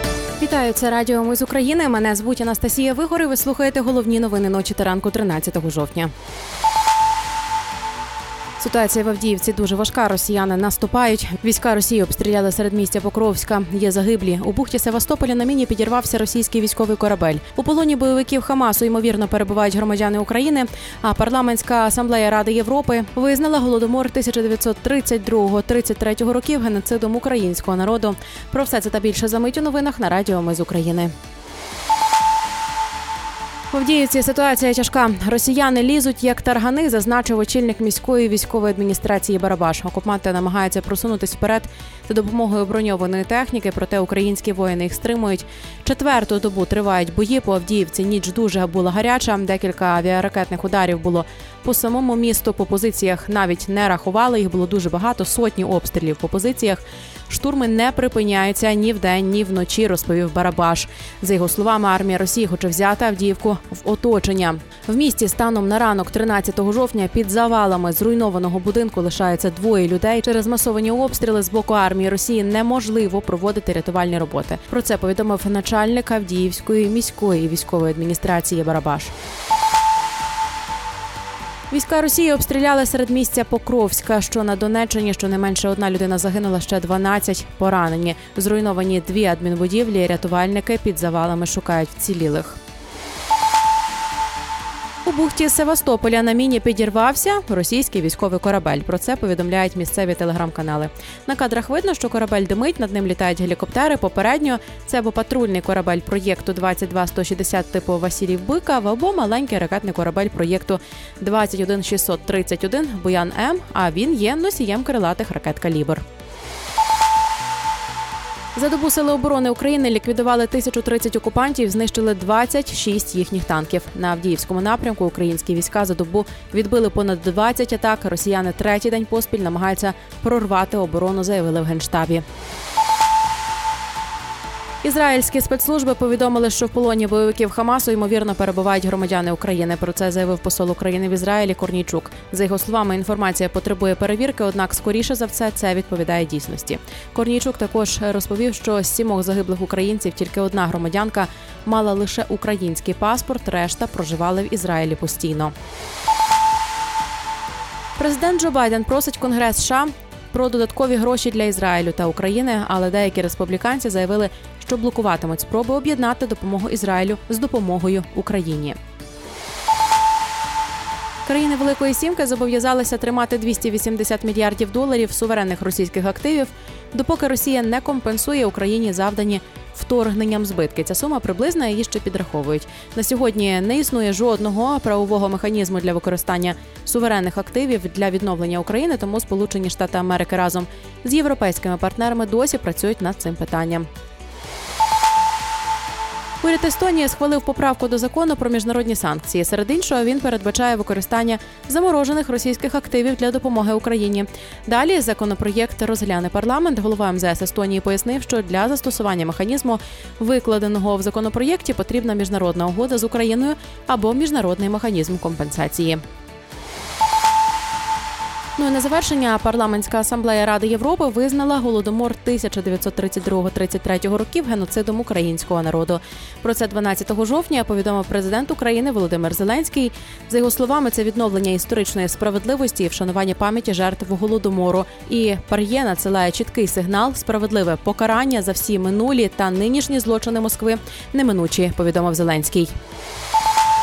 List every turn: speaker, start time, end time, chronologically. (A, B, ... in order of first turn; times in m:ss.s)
0:00.4-0:06.1 A
0:08.6-0:31.1 A
0:33.7-1:19.1 A
1:21.7-1:32.6 A
1:35.0-1:56.0 A
1:58.5-2:12.2 A
2:14.8-2:35.5 A
2:38.0-2:48.8 A
2:51.2-3:13.9 A
3:16.4-3:36.0 A
3:38.6-4:02.7 A